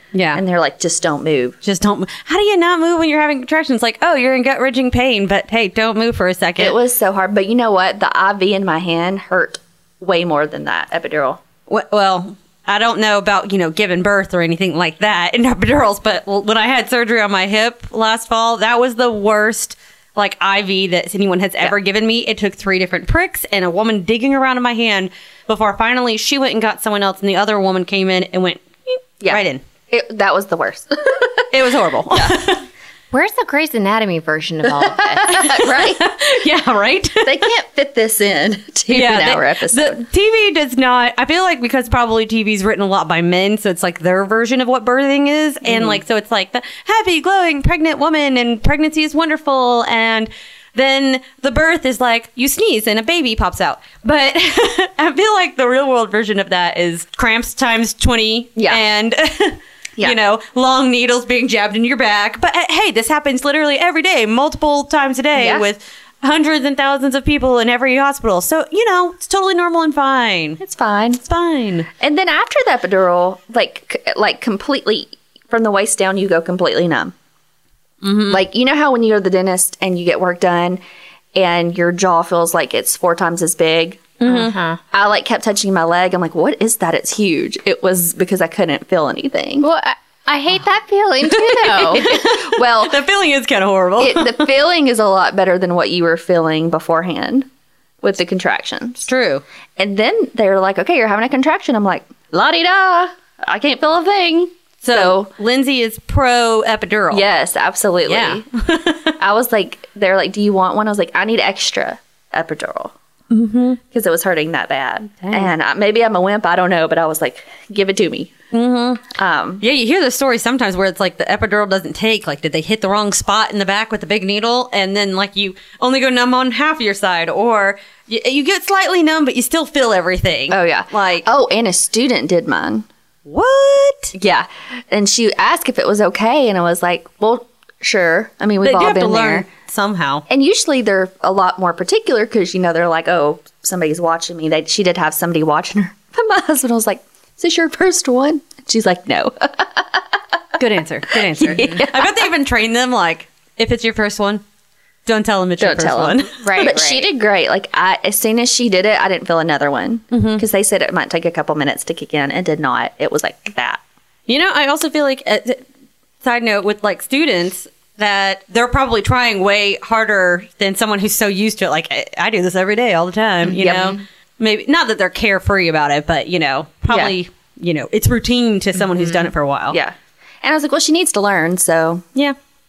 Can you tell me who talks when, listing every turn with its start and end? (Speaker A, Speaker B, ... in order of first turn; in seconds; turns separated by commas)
Speaker A: 0.1-0.4, Speaker B: 0.3-1.6, Speaker A: 1.6-6.8, Speaker B: 6.6-11.4, Speaker A: 11.7-29.6, Speaker B: 29.2-31.5, Speaker A: 31.5-32.6, Speaker B: 32.1-32.4, Speaker C: 33.1-35.4, Speaker B: 34.7-36.1, Speaker A: 35.3-37.5, Speaker B: 37.2-40.0, Speaker A: 38.9-70.6, Speaker B: 45.6-46.0, Speaker B: 58.6-58.8, Speaker B: 65.4-65.7, Speaker B: 70.6-71.2, Speaker A: 71.2-71.9, Speaker B: 72.0-77.1, Speaker A: 78.0-78.4, Speaker B: 78.3-80.8, Speaker B: 81.3-89.7, Speaker A: 84.2-84.6, Speaker C: 84.3-84.8, Speaker C: 89.6-92.1, Speaker A: 91.2-94.5, Speaker B: 91.9-93.0, Speaker B: 94.0-97.5, Speaker B: 98.0-99.1, Speaker A: 99.0-99.4, Speaker B: 99.8-105.3, Speaker A: 104.8-107.2, Speaker B: 107.1-108.5, Speaker A: 108.1-109.2, Speaker B: 109.2-112.9, Speaker A: 113.3-113.8, Speaker B: 113.9-118.3, Speaker A: 115.2-115.5, Speaker A: 118.5-119.1, Speaker B: 119.1-119.6, Speaker A: 119.6-131.3, Speaker B: 130.5-132.9, Speaker A: 133.3-134.1, Speaker B: 134.1-139.5, Speaker A: 138.6-140.2, Speaker B: 140.3-150.0, Speaker A: 150.6-154.4, Speaker B: 151.1-152.2, Speaker A: 155.1-156.4, Speaker B: 155.6-163.8, Speaker C: 156.4-157.1, Speaker A: 160.1-160.4, Speaker A: 164.3-165.6, Speaker A: 166.2-179.8, Speaker B: 173.5-174.0, Speaker B: 176.9-177.1, Speaker B: 179.7-182.1